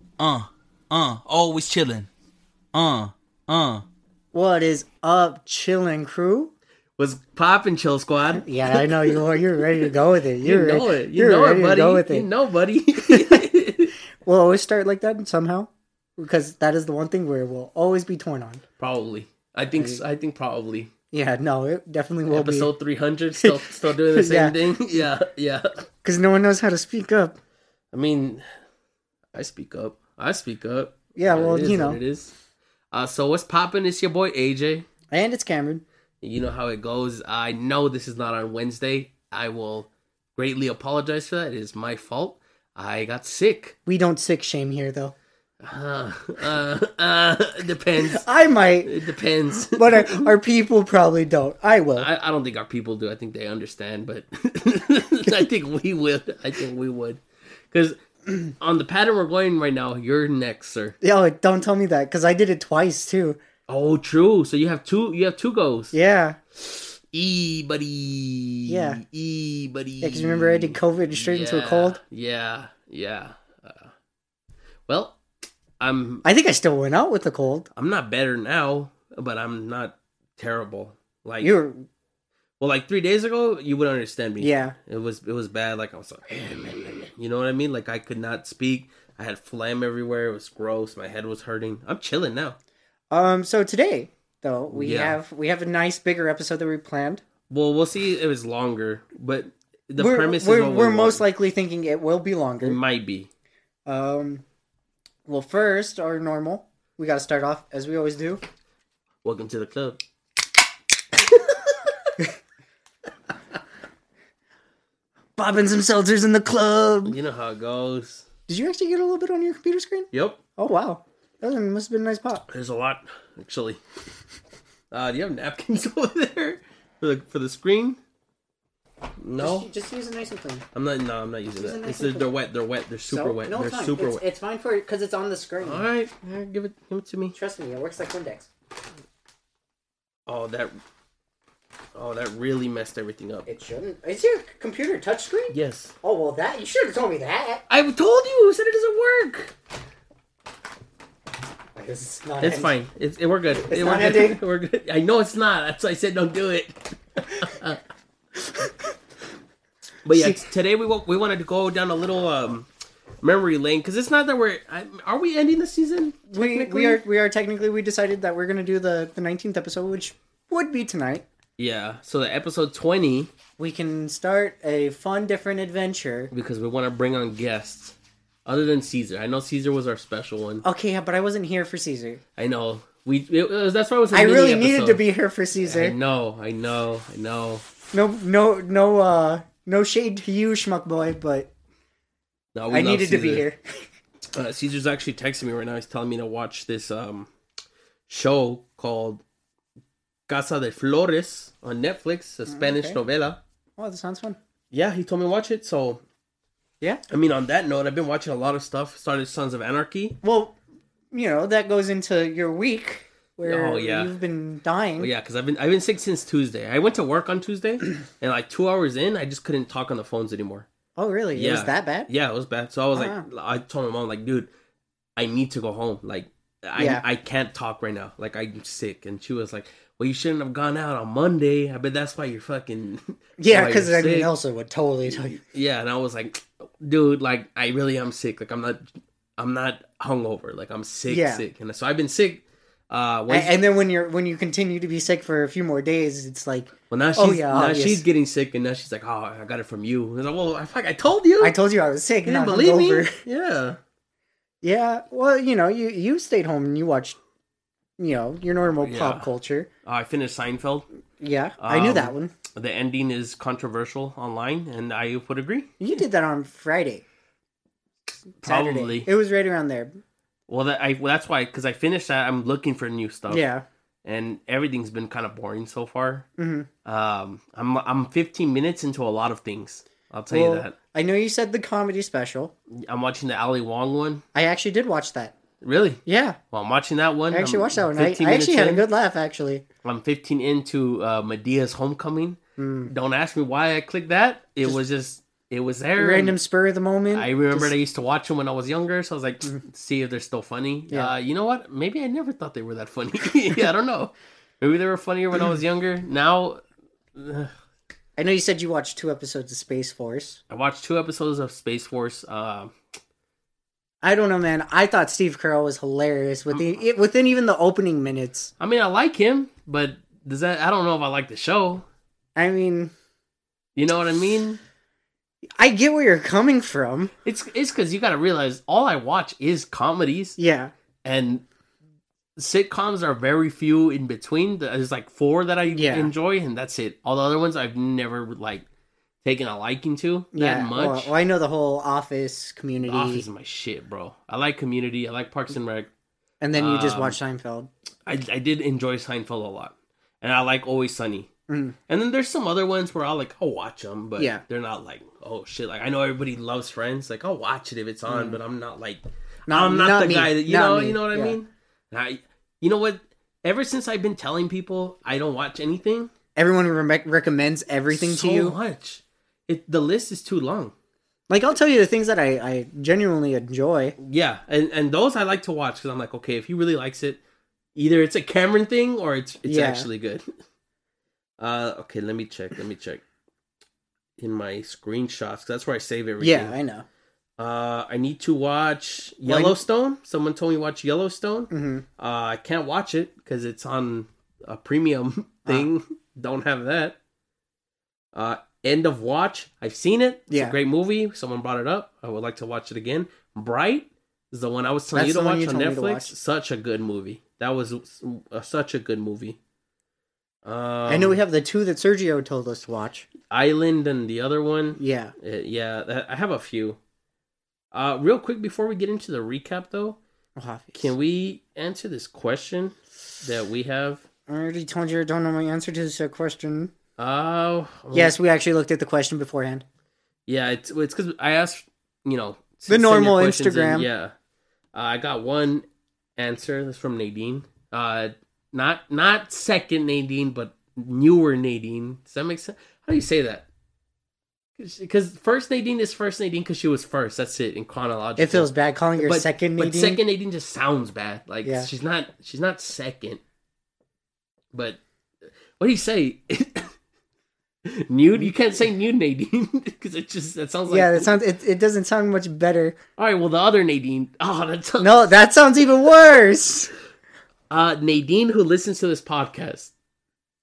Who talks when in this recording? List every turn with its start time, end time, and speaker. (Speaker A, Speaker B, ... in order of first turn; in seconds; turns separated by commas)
Speaker A: 0.2-2.1, Speaker A: 2.7-3.8, Speaker B: 4.3-6.5, Speaker C: 7.0-9.2, Speaker B: 8.4-12.3, Speaker C: 10.4-13.9, Speaker B: 13.1-13.4, Speaker B: 14.2-18.6, Speaker C: 18.8-20.9, Speaker B: 19.7-20.0, Speaker B: 21.1-22.7, Speaker C: 22.3-25.7, Speaker B: 23.4-24.6, Speaker B: 26.0-27.4, Speaker C: 27.9-28.4, Speaker C: 29.3-32.3, Speaker B: 31.1-32.0, Speaker C: 32.9-34.9, Speaker B: 35.1-35.8, Speaker C: 36.2-43.8, Speaker B: 43.9-45.1, Speaker C: 45.6-48.2, Speaker B: 48.0-48.9, Speaker C: 48.8-50.3, Speaker B: 49.6-52.1, Speaker C: 52.0-61.0, Speaker B: 61.0-63.4, Speaker C: 63.7-66.0, Speaker B: 65.9-66.4, Speaker C: 66.6-73.9, Speaker B: 68.7-69.0, Speaker B: 70.0-72.0, Speaker C: 74.9-75.2, Speaker C: 75.8-76.2, Speaker B: 76.2-77.7, Speaker C: 77.7-81.5, Speaker B: 81.4-81.9, Speaker C: 82.6-92.6, Speaker B: 84.4-84.8, Speaker B: 93.1-97.2, Speaker C: 94.7-95.2, Speaker C: 97.5-101.2, Speaker B: 100.0-102.8, Speaker C: 102.6-103.3, Speaker B: 103.8-104.4, Speaker B: 105.2-108.4, Speaker C: 109.2-110.0, Speaker C: 111.3-111.7, Speaker B: 115.4-117.2, Speaker C: 117.0-118.3, Speaker B: 118.5-122.4, Speaker C: 120.1-120.4, Speaker C: 122.5-123.8, Speaker C: 124.9-128.0, Speaker C: 129.2-129.7, Speaker B: 129.4-130.6, Speaker C: 130.7-134.2, Speaker B: 131.5-132.3, Speaker B: 133.1-135.8, Speaker C: 135.6-137.3, Speaker B: 137.3-138.5, Speaker C: 140.3-140.8, Speaker C: 141.9-143.5, Speaker B: 143.5-147.6, Speaker C: 145.5-145.9, Speaker C: 147.7-149.5, Speaker B: 151.7-152.7, Speaker C: 152.4-157.8, Speaker B: 153.5-154.4, Speaker C: 160.0-162.7, Speaker B: 160.1-160.4, Speaker C: 163.2-167.0, Speaker B: 166.3-171.2, Speaker C: 171.6-173.3, Speaker B: 173.6-176.3, Speaker C: 176.3-180.6, Speaker B: 180.6-182.2, Speaker C: 182.4-185.0, Speaker B: 184.1-185.9, Speaker C: 185.6-187.6, Speaker B: 187.9-191.5, Speaker C: 192.5-193.5, Speaker B: 192.7-193.6, Speaker C: 194.3-197.3, Speaker C: 198.1-199.2, Speaker C: 200.3-203.4, Speaker B: 202.5-203.0, Speaker B: 203.8-204.4, Speaker C: 204.7-206.0, Speaker C: 207.1-210.2, Speaker B: 210.2-210.6, Speaker B: 211.1-215.1, Speaker C: 213.4-214.1, Speaker C: 215.0-220.7, Speaker B: 220.9-222.1, Speaker C: 221.3-224.5, Speaker B: 222.9-223.2, Speaker C: 225.2-234.3, Speaker B: 226.8-227.0, Speaker B: 233.4-235.4, Speaker C: 235.1-238.8, Speaker C: 239.4-243.6, Speaker B: 241.1-241.4, Speaker B: 243.3-248.0, Speaker C: 246.9-251.6, Speaker B: 251.4-253.2, Speaker C: 252.2-253.8, Speaker B: 254.6-257.1, Speaker B: 258.0-259.7, Speaker C: 258.7-259.3, Speaker C: 259.8-260.9, Speaker B: 261.2-262.3, Speaker C: 261.6-266.0, Speaker B: 265.8-267.0, Speaker C: 268.4-269.1, Speaker B: 268.4-269.9, Speaker C: 270.5-273.4, Speaker B: 273.3-273.6, Speaker C: 274.0-276.3, Speaker B: 276.4-276.7, Speaker C: 276.8-280.7, Speaker B: 280.3-282.5, Speaker C: 282.7-284.2, Speaker B: 284.3-285.3, Speaker C: 285.6-288.8, Speaker B: 286.1-286.4, Speaker B: 287.3-289.6, Speaker C: 289.8-296.4, Speaker B: 292.6-292.9, Speaker B: 296.0-297.7, Speaker C: 297.1-306.6, Speaker C: 307.1-307.5, Speaker B: 308.1-310.4, Speaker C: 310.5-312.7, Speaker B: 314.0-318.5, Speaker C: 318.6-321.9, Speaker B: 322.4-322.9, Speaker C: 323.8-324.6, Speaker B: 325.6-327.1, Speaker C: 327.2-330.4, Speaker B: 330.4-330.7, Speaker C: 331.0-331.4, Speaker C: 332.4-338.6, Speaker B: 335.7-336.1, Speaker C: 339.2-341.1, Speaker B: 340.3-343.2, Speaker C: 342.8-345.9, Speaker B: 346.4-347.7, Speaker C: 346.5-347.2, Speaker C: 348.1-351.3, Speaker B: 351.5-351.8, Speaker C: 351.9-366.1, Speaker B: 354.2-354.4, Speaker B: 358.1-358.4, Speaker B: 359.5-361.4, Speaker B: 366.4-368.5, Speaker C: 367.9-370.7, Speaker B: 371.3-373.9, Speaker C: 374.0-377.2, Speaker C: 377.7-380.2, Speaker B: 379.4-379.9, Speaker C: 381.4-383.0, Speaker C: 384.2-386.6, Speaker B: 386.2-386.9, Speaker C: 387.4-397.0, Speaker B: 389.2-389.6, Speaker B: 391.5-391.8, Speaker C: 398.1-409.4, Speaker B: 400.3-400.6, Speaker B: 404.9-406.1, Speaker C: 410.4-411.2, Speaker B: 410.9-413.1, Speaker C: 413.3-416.8, Speaker B: 414.8-415.1, Speaker C: 417.7-420.0, Speaker B: 420.4-420.9, Speaker C: 420.7-424.0, Speaker B: 424.3-426.7, Speaker C: 427.0-428.1, Speaker B: 427.9-429.6, Speaker C: 430.3-434.1, Speaker B: 432.7-433.9, Speaker C: 434.7-435.6, Speaker C: 436.1-443.5, Speaker C: 444.6-453.2, Speaker B: 448.2-450.0, Speaker B: 451.4-451.7, Speaker C: 454.5-454.8, Speaker C: 455.6-456.7, Speaker C: 457.6-461.1, Speaker B: 460.7-462.8, Speaker C: 463.0-465.1, Speaker B: 464.8-466.7, Speaker C: 467.5-469.7